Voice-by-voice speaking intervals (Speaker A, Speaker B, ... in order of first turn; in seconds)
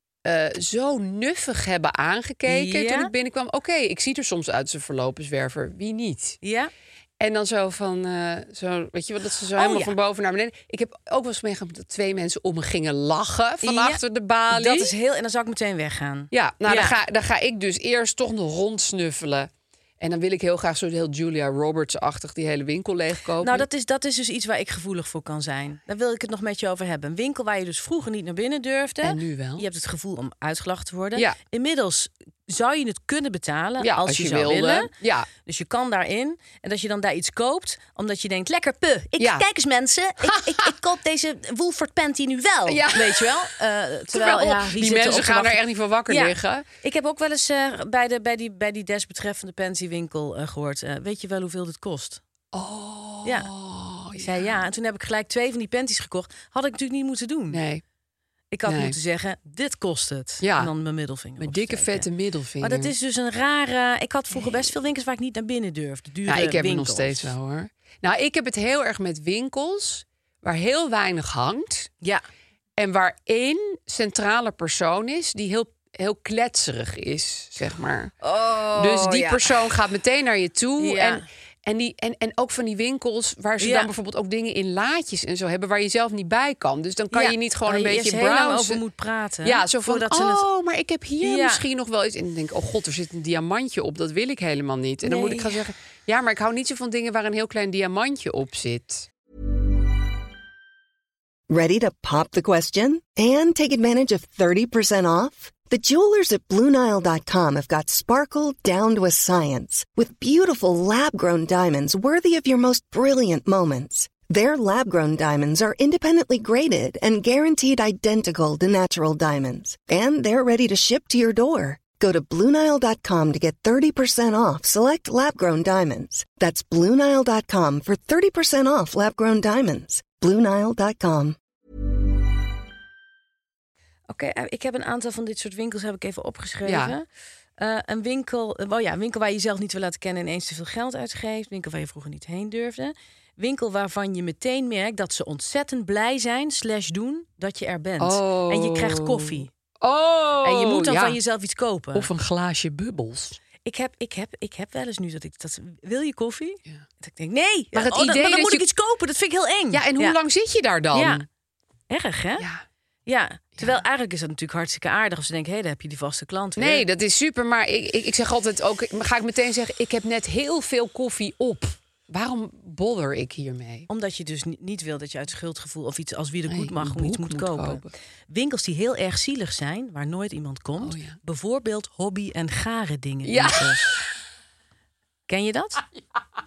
Speaker A: 0.2-6.4, 7.2-14.9, 16.3-19.5, 20.0-23.6, 29.0-29.7, 33.8-35.3, 39.2-39.5, 40.3-40.7, 42.7-43.4, 44.1-46.6, 52.5-54.6, 57.5-57.8, 58.7-59.0, 60.4-60.7, 61.4-62.9, 64.4-64.6, 66.3-71.9, 72.8-78.1, 78.8-88.8, 89.4-99.1, 136.7-136.9, 148.0-151.2, 151.9-153.4, 157.7-158.6, 159.7-161.2, 166.6-173.9, 176.5-177.9, 180.8-181.2, 183.3-184.0
Speaker B: 2.5-3.1, 6.4-6.7, 9.6-9.9, 13.6-17.0, 23.4-34.9, 35.5-52.2, 53.2-53.5, 54.2-57.6, 58.5-62.1, 62.6-67.3, 78.2-79.6, 80.8-81.3, 83.6-83.9, 87.1-90.5, 91.2-91.6, 95.0-95.6, 134.1-137.1, 137.6-149.5, 150.4-152.1, 153.6-160.2, 160.9-161.2, 161.9-162.5, 163.1-166.8, 173.9-184.0, 185.3-185.8
Speaker C: 101.5-131.4